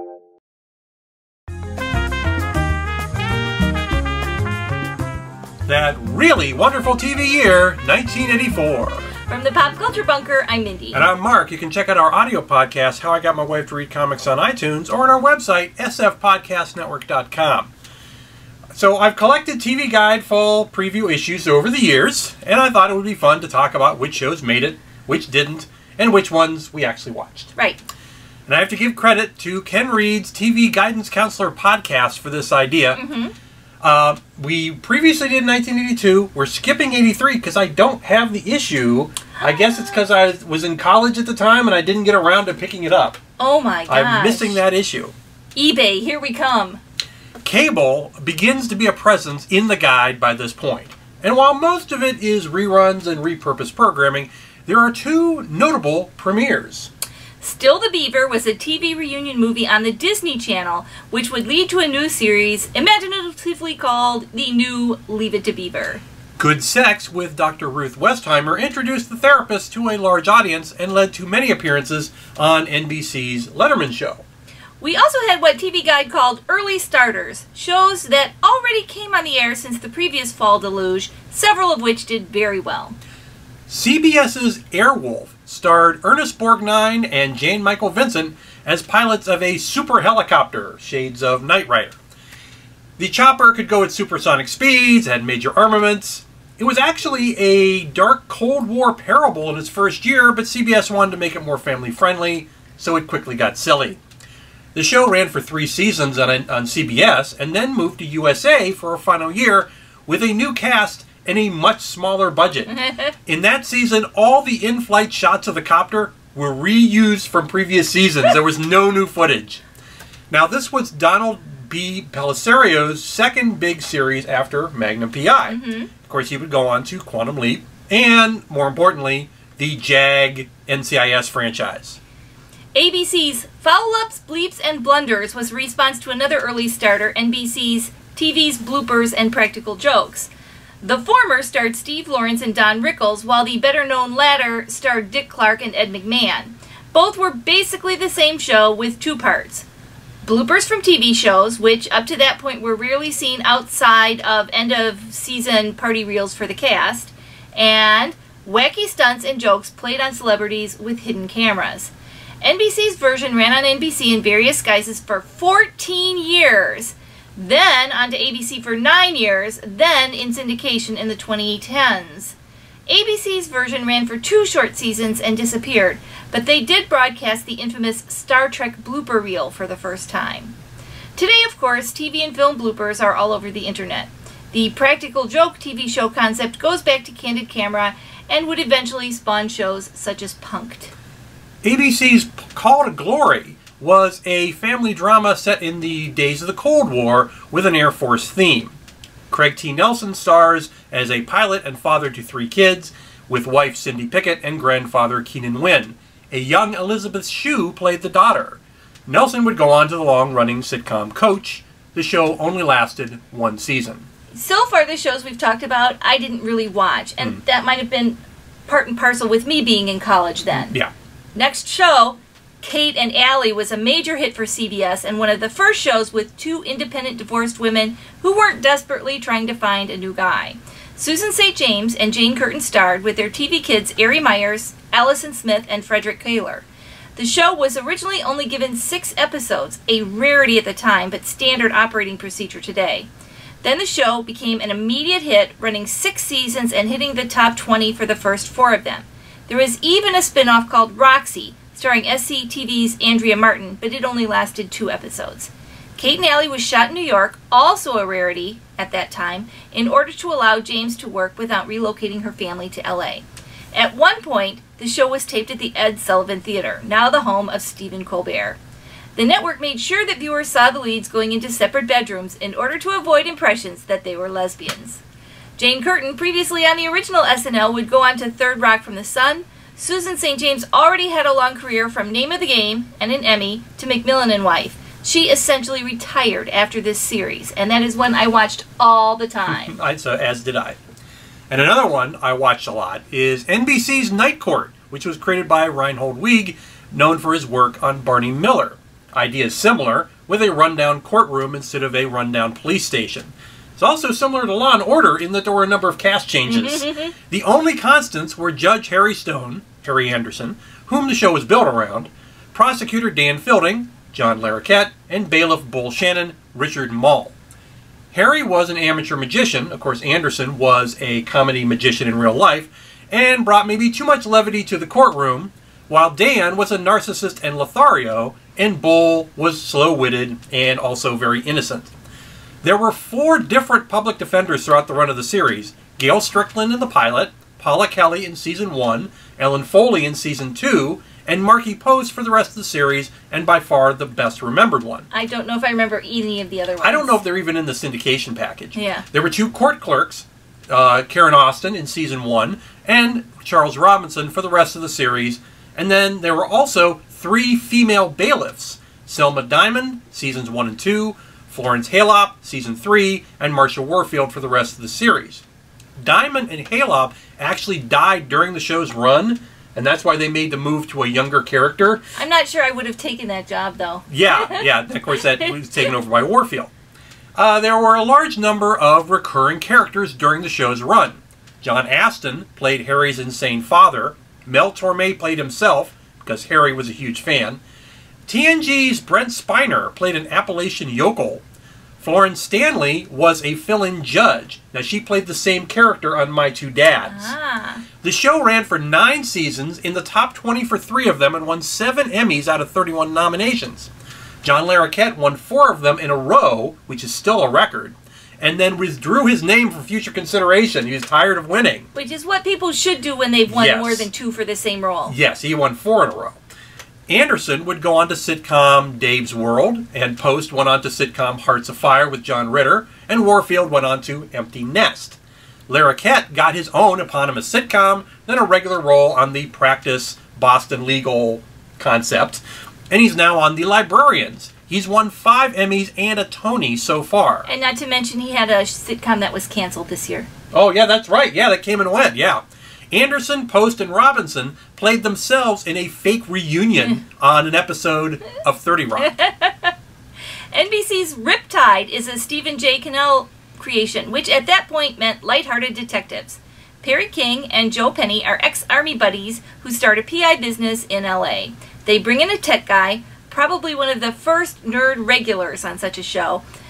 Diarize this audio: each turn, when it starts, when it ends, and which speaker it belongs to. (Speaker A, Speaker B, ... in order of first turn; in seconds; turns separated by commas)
Speaker A: 5.7-9.1, Speaker B: 9.3-11.1, Speaker A: 10.9-17.7, Speaker A: 18.7-27.5, Speaker B: 27.6-27.8, Speaker A: 28.5-33.0, Speaker B: 32.9-33.3, Speaker A: 33.8-43.2, Speaker B: 39.4-40.0, Speaker B: 43.4-44.6, Speaker A: 43.9-45.1, Speaker B: 45.5-46.8, Speaker A: 47.4-56.9, Speaker B: 57.4-66.0, Speaker A: 66.4-74.2, Speaker B: 74.8-83.0, Speaker A: 83.7-92.0, Speaker A: 93.0-104.0, Speaker A: 104.7-119.6, Speaker B: 112.7-113.1, Speaker A: 120.3-132.0, Speaker B: 125.4-125.9, Speaker B: 132.7-140.3, Speaker B: 140.8-149.7, Speaker B: 150.2-172.3, Speaker B: 172.9-180.5, Speaker B: 181.2-190.9, Speaker A: 191.6-198.8, Speaker A: 199.3-214.0, Speaker B: 214.3-220.7, Speaker B: 221.3-243.1, Speaker B: 243.6-268.6, Speaker B: 269.1-275.0, Speaker B: 275.6-289.7, Speaker A: 289.5-290.8, Speaker A: 291.5-317.3, Speaker B: 306.4-307.1, Speaker A: 318.1-331.9, Speaker A: 332.6-345.1, Speaker B: 345.1-347.2, Speaker A: 346.8-365.4, Speaker B: 348.7-349.1, Speaker A: 366.0-372.0, Speaker B: 372.1-375.5, Speaker A: 374.1-376.7, Speaker A: 377.4-387.6, Speaker A: 388.2-391.4, Speaker A: 392.0-397.3, Speaker B: 397.0-397.9, Speaker A: 398.0-403.9, Speaker A: 404.4-411.9, Speaker B: 411.9-415.1, Speaker A: 413.5-414.1, Speaker A: 415.1-416.4, Speaker A: 417.1-437.5, Speaker B: 437.4-440.3, Speaker A: 440.5-449.1, Speaker B: 449.0-449.7, Speaker B: 450.5-466.4